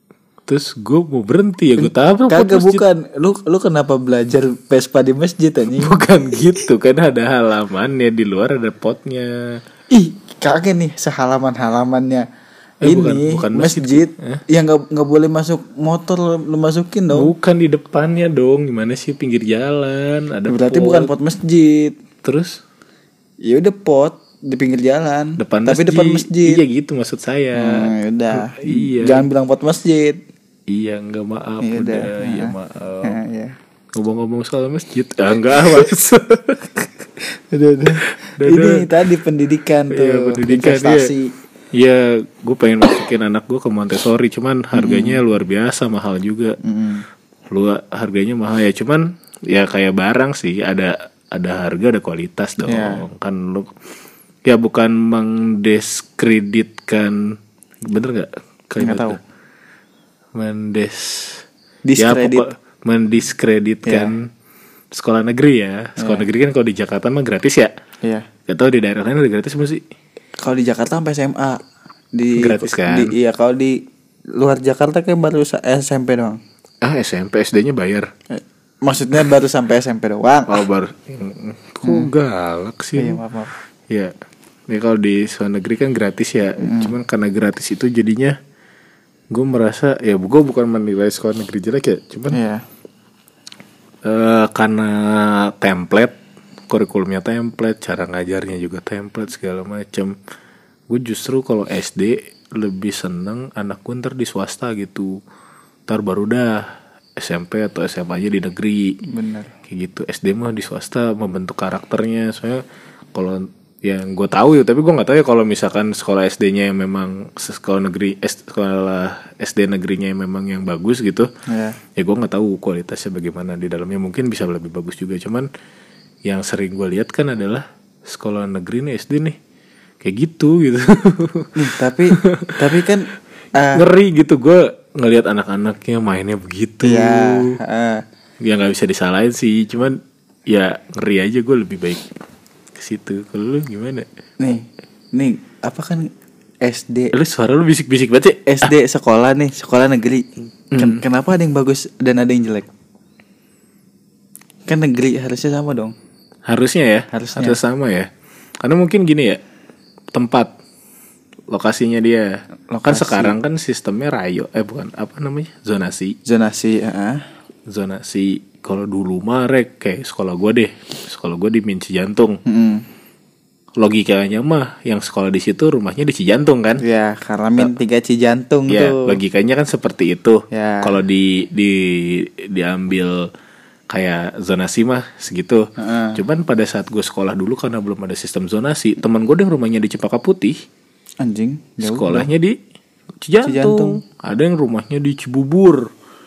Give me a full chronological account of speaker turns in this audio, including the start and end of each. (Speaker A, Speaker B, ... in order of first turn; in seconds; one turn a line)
Speaker A: 0.5-2.8
Speaker B: 1.8-6.0
Speaker A: 5.8-9.6
Speaker B: 9.9-12.3
Speaker A: 12.8-14.4
Speaker B: 12.8-17.3
Speaker A: 17.1-21.1
Speaker B: 20.5-22.0
Speaker A: 22.2-22.6
Speaker B: 23.4-26.6
Speaker A: 25.4-29.3
Speaker B: 27.6-30.2
Speaker A: 30.7-33.2
Speaker B: 31.6-33.5
Speaker A: 33.9-36.8
Speaker B: 37.2-41.3
Speaker A: 38.2-38.9
Speaker A: 39.9-41.1
Speaker A: 41.7-46.6
Speaker B: 44.7-45.2
Speaker B: 46.6-47.0
Speaker A: 47.5-53.7
Speaker B: 52.7-53.0
Speaker A: 54.5-59.2
Speaker B: 58.8-59.2
Speaker A: 60.3-61.4
Speaker B: 61.9-62.4
Speaker A: 62.0-64.3
Speaker B: 63.8-64.2
Speaker A: 64.9-67.7
Speaker B: 66.0-66.3
Speaker A: 68.5-69.8
Speaker B: 70.4-71.6
Speaker B: 72.1-73.8
Speaker A: 72.4-73.1
Speaker B: 74.3-76.4
Speaker A: 76.8-78.1
Speaker B: 78.3-80.6
Speaker A: 80.5-83.2
Speaker B: 81.8-82.1
Speaker B: 82.9-83.5
Speaker A: 83.9-84.1
Speaker A: 84.7-88.3
Speaker B: 86.6-86.9
Speaker A: 89.3-92.4
Speaker B: 92.3-92.6
Speaker A: 94.0-96.2
Speaker A: 96.7-100.2
Speaker A: 100.9-105.2
Speaker A: 105.9-109.0
Speaker B: 109.0-109.5
Speaker A: 109.7-112.6
Speaker A: 113.1-121.3
Speaker B: 121.5-121.8
Speaker A: 122.0-125.5
Speaker A: 126.2-129.4
Speaker A: 130.0-131.5
Speaker B: 131.6-133.8
Speaker A: 132.2-132.6
Speaker A: 133.7-137.6
Speaker B: 136.8-138.0
Speaker A: 138.4-142.1
Speaker A: 142.8-144.1
Speaker B: 144.4-146.1
Speaker B: 146.6-147.1
Speaker A: 147.1-148.7
Speaker B: 148.4-152.7
Speaker A: 150.7-151.0
Speaker B: 154.7-155.9
Speaker A: 156.4-158.1
Speaker B: 157.1-157.6
Speaker A: 158.6-159.4
Speaker A: 160.1-160.5
Speaker A: 161.5-166.2
Speaker B: 162.7-163.4
Speaker B: 166.3-167.2
Speaker A: 167.7-172.4
Speaker B: 172.4-172.8
Speaker A: 173.8-176.8
Speaker B: 176.8-179.2
Speaker A: 178.7-183.3
Speaker B: 180.5-180.9
Speaker A: 183.9-190.6
Speaker B: 185.8-186.2
Speaker B: 191.2-192.3
Speaker A: 191.8-192.6
Speaker A: 193.2-195.9
Speaker B: 193.4-194.0